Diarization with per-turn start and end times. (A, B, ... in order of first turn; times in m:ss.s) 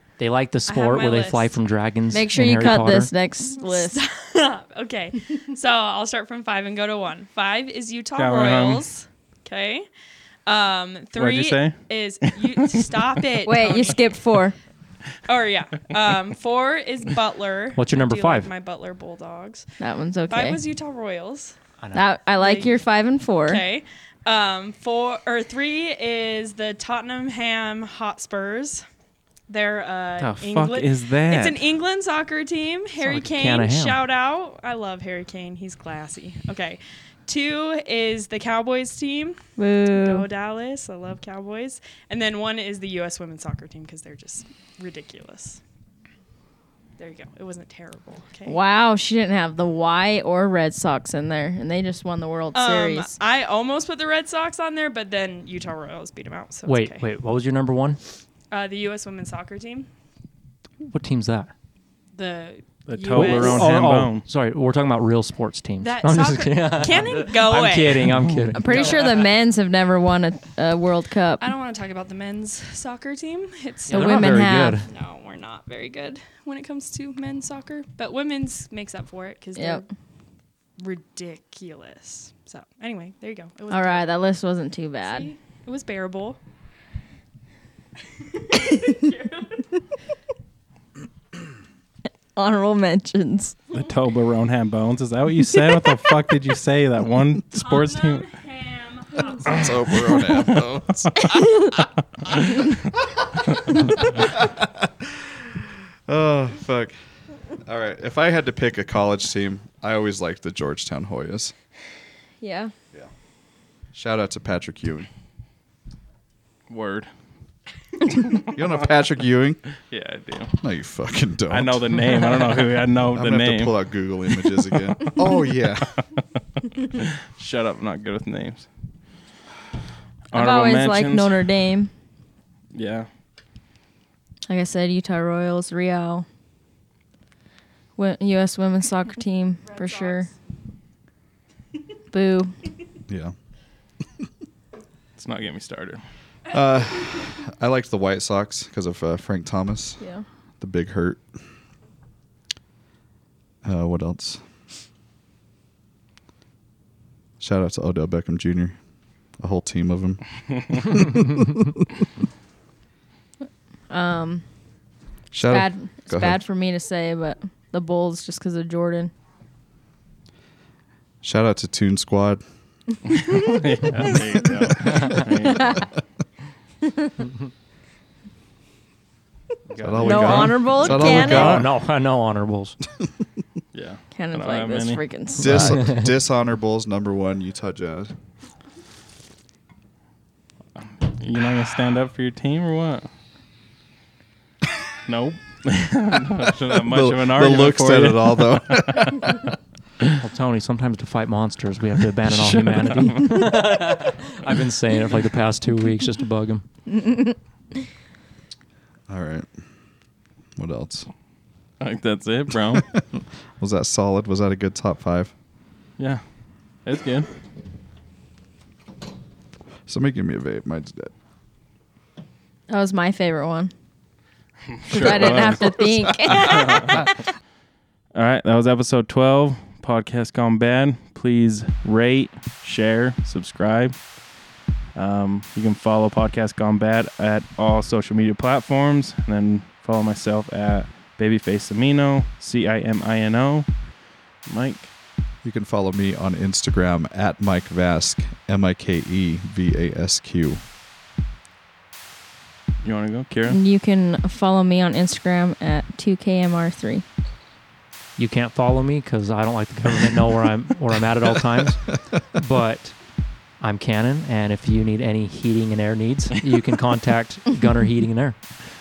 0:00.2-0:03.1 A
0:00.7-0:01.5 B
0:02.1-0:04.0 C
0:03.6-0:09.9 B
0:08.2-0:08.8 D
0:10.5-0:14.2 B
0:11.2-0:12.9 D
0:13.4-0:14.6 C
0:15.3-0:19.7 B
0:17.8-0:18.5 A
0:19.8-0:20.6 C
0:20.3-0:21.6 B
0:21.9-0:23.6 C
0:22.4-0:22.8 B
0:23.4-0:28.9 B
0:29.5-0:39.4 B
0:30.2-0:31.6 D
0:33.0-0:34.0 A
0:39.6-0:40.3 C
0:39.9-0:45.6 B
0:47.0-0:48.6 B
0:48.4-0:53.1 C
0:52.5-0:57.1 B
0:56.7-0:58.0 A
0:58.5-0:59.9 B
1:00.8-1:01.5 A
1:02.2-1:03.7 B
1:02.9-1:04.2 D
1:03.1-1:08.9 A
1:05.8-1:08.1 B
1:08.5-1:11.5 C
1:08.7-1:09.2 B
1:08.7-1:09.0 D
1:11.4-1:19.9 B
1:13.9-1:14.9 A
1:13.9-1:14.8 C
1:19.6-1:19.8 C
1:20.8-1:24.1 B
1:23.7-1:25.3 C
1:25.0-1:26.4 B
1:28.2-1:29.7 B
1:32.4-1:33.6 C
1:33.7-1:38.3 D
1:37.6-1:39.7 B
1:39.5-1:41.2 E
1:40.0-1:41.2 D
1:42.3-1:42.7 D
1:44.2-1:45.2 E
1:46.1-1:47.0 E
1:47.6-1:51.5 E
1:52.4-1:52.7 C
1:53.9-1:55.1 E
1:56.7-1:57.1 D
1:58.3-1:59.6 E
1:59.9-2:00.6 D
2:00.6-2:02.0 E
2:01.5-2:03.8 D
2:03.1-2:05.9 E
2:07.0-2:08.7 D
2:10.3-2:11.4 D
2:10.3-2:11.9 C
2:12.7-2:13.1 D
2:14.5-2:16.3 C
2:18.0-2:20.3 C
2:19.6-2:20.3 B
2:22.1-2:22.5 C
2:23.1-2:23.3 E
2:25.2-2:26.0 D
2:26.5-2:30.0 E
2:30.6-2:31.2 E
2:33.6-2:34.4 E
2:37.4-2:38.8 E
2:39.4-2:41.6 E
2:43.9-2:44.4 C
2:45.3-2:46.4 E
2:45.5-2:49.1 C
2:51.2-2:52.4 E
2:53.1-2:55.8 D
2:59.7-3:02.8 A
2:59.8-3:01.7 E
3:00.0-3:00.5 D
3:00.0-3:01.6 C
3:03.7-3:05.0 D
3:04.1-3:05.8 C
3:05.4-3:08.1 E
3:05.5-3:06.1 A
3:10.8-3:13.1 D
3:15.1-3:19.2 D
3:16.8-3:19.3 E
3:20.2-3:26.6 A
3:22.3-3:23.5 D
3:29.1-3:29.5 E
3:30.6-3:31.1 E
3:31.8-3:32.9 D
3:33.6-3:35.3 E
3:36.8-3:37.3 D
3:39.9-3:41.1 E
3:42.7-3:43.7 C
3:44.8-3:45.7 D
3:44.9-3:47.2 C
3:46.4-3:47.1 D
3:48.2-3:54.0 D
3:55.0-4:03.7 D
4:04.5-4:04.9 D
4:05.4-4:10.6 E
4:12.8-4:13.6 D
4:13.5-4:17.0 C
4:18.2-4:23.0 A
4:23.6-4:28.4 A